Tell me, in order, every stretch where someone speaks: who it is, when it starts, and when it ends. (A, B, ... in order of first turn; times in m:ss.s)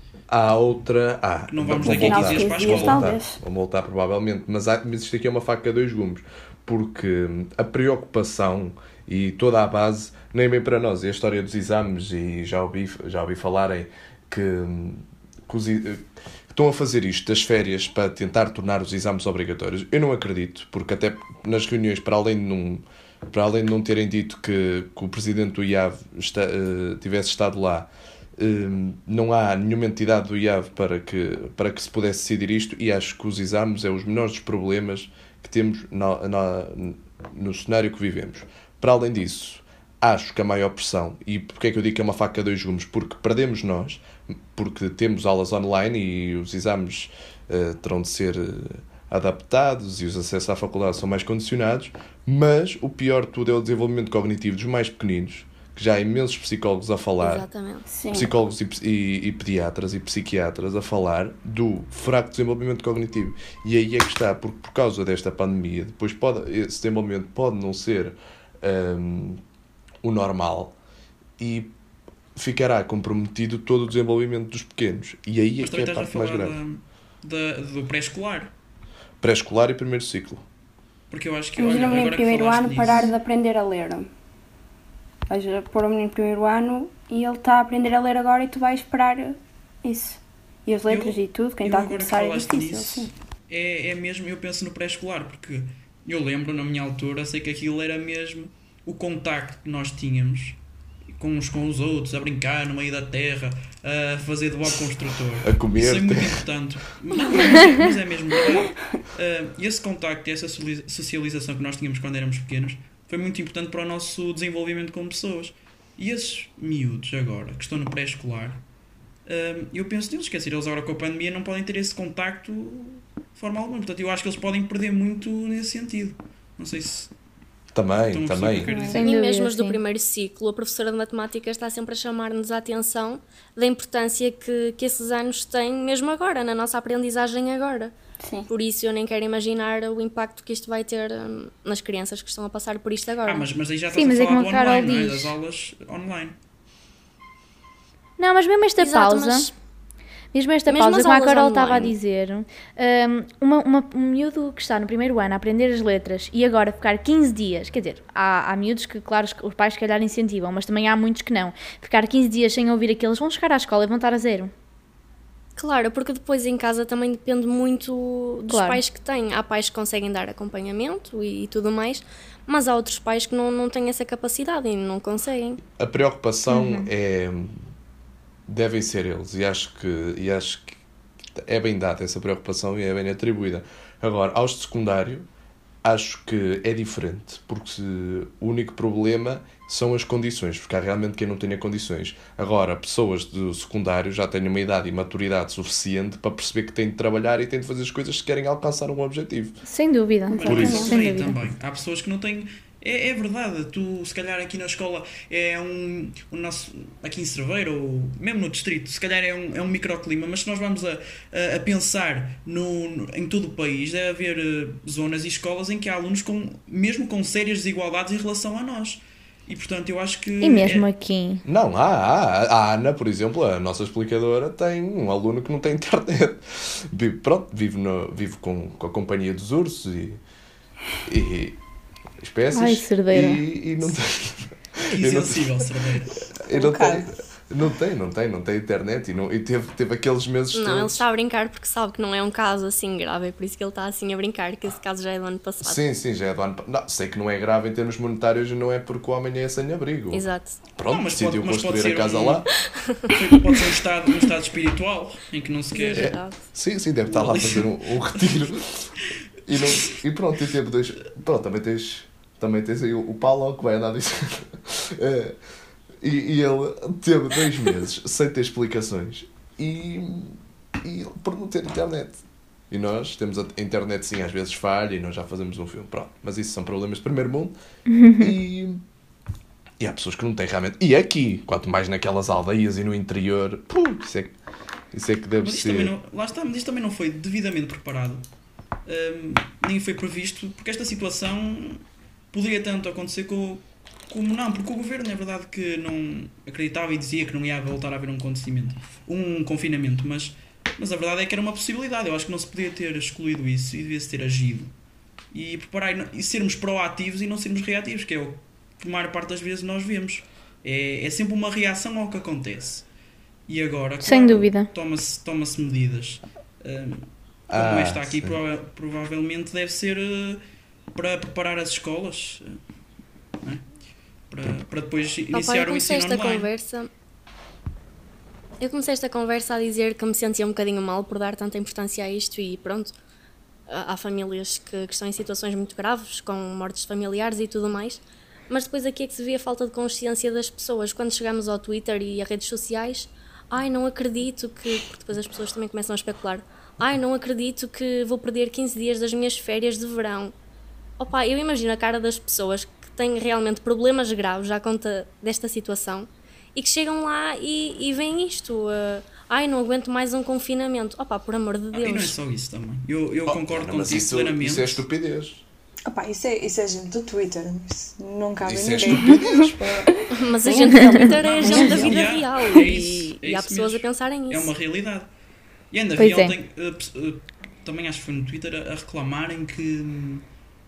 0:00.3-0:57.5 A
0:01.5-0:03.2 B
0:01.8-0:03.4 C
0:57.2-0:57.9 D
0:57.9-0:58.3 C
0:58.1-1:09.4 A
1:10.0-1:10.8 A
1:11.4-1:11.7 A
1:12.4-1:16.6 A
1:15.6-1:18.5 B
1:19.2-1:20.4 A
1:21.1-1:23.1 B
1:21.6-1:24.1 C
1:25.3-1:33.1 C
1:30.9-1:40.6 B
1:41.2-1:58.6 B
1:45.4-1:46.4 A
1:59.3-2:07.1 B
2:07.7-2:08.8 A
2:08.1-2:09.0 B
2:08.6-2:09.0 C
2:08.9-2:09.8 E
2:09.0-2:17.9 D
2:18.2-2:18.5 C
2:18.5-2:23.5 D
2:23.2-2:26.4 B
2:23.9-2:25.4 E
2:28.2-2:29.5 E
2:28.8-2:29.5 D
2:30.3-2:44.5 E
2:30.7-2:32.0 D
2:45.6-2:55.6 D
2:48.5-2:48.8 E
2:55.7-2:57.6 A
2:56.5-2:56.9 E
2:58.5-3:00.8 A
3:01.4-3:05.3 A
3:05.8-3:19.6 A
3:19.6-3:21.4 E
3:20.3-3:21.0 C
3:20.4-3:40.9 B
3:20.4-3:20.9 A
3:40.4-3:41.4 E
3:41.4-3:50.2 A
3:51.0-3:51.6 A
3:52.2-3:55.6 A
3:52.5-3:53.4 E
3:54.9-3:56.1 B
3:56.4-4:01.0 A
3:56.5-3:57.1 F
4:00.5-4:05.9 D
4:05.6-4:12.5 A
4:10.1-4:10.6 D
4:10.9-4:12.5 B
4:13.1-4:16.1 B
4:15.7-4:16.4 D
4:15.9-4:18.9 A
4:17.1-4:17.7 B
4:19.5-4:25.4 A
4:26.0-4:37.6 A
4:37.9-4:38.4 E
4:38.2-4:38.8 A
4:39.8-4:44.4 A
4:44.9-4:45.9 A
4:45.4-4:48.2 B
4:48.9-5:04.7 B
5:05.3-5:12.8 B
5:13.5-5:20.4 B
5:14.0-5:14.7 E
5:17.5-5:18.4 A
5:21.0-5:22.6 B
5:24.3-5:26.5 B
5:25.3-5:26.9 D
5:28.6-5:32.9 D
5:33.7-5:50.3 D
5:51.0-6:02.2 D
6:01.7-6:04.8 B
6:03.3-6:05.4 A
6:05.9-6:09.9 F
6:08.4-6:09.9 A
6:10.1-6:14.5 D
6:10.4-6:12.6 C
6:11.0-6:15.1 B
6:15.7-6:20.2 B
6:16.0-6:16.4 E